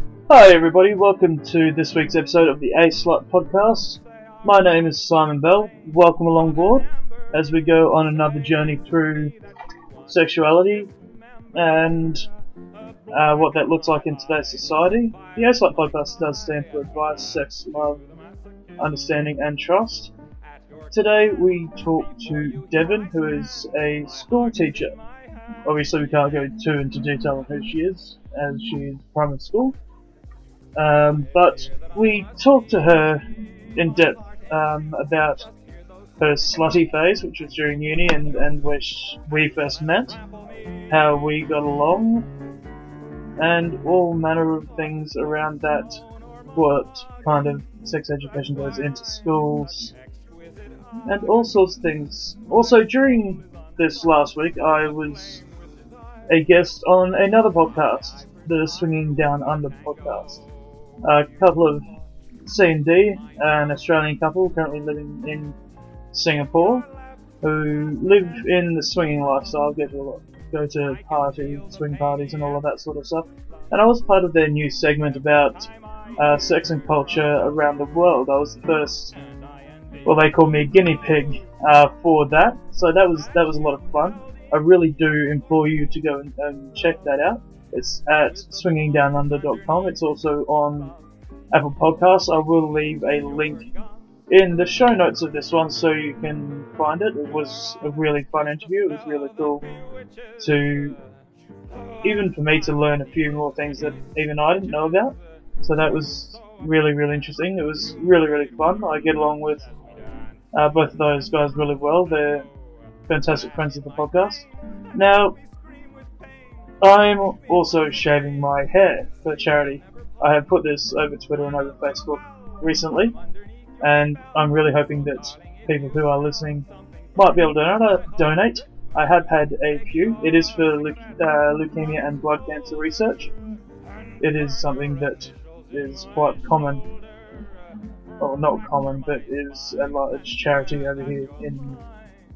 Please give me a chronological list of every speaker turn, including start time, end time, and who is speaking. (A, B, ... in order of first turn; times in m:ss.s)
0:00.3-0:09.3 A
0:10.1-0:10.9 A
0:11.5-0:12.3 A
0:13.1-0:18.0 A
0:18.8-0:20.1 A
0:20.9-0:24.9 A
0:25.6-0:29.8 A
0:30.7-0:35.5 A
0:36.2-0:40.2 A
0:40.9-0:42.3 A
0:43.4-0:46.0 A
0:46.5-0:49.9 A
0:51.0-0:55.4 A
0:56.3-1:00.4 A
1:01.0-1:01.8 A
1:02.4-1:05.6 A
1:06.1-1:06.9 A
1:07.4-1:19.2 A
1:20.0-1:30.9 A
1:31.5-1:33.7 A
1:34.3-1:39.6 A
1:40.4-1:41.0 A
1:42.0-1:49.6 A
1:50.5-1:52.5 A
1:53.1-1:55.4 A
1:56.8-2:03.2 A
2:03.8-2:13.3 A
2:14.2-2:16.8 A
2:18.2-2:21.8 A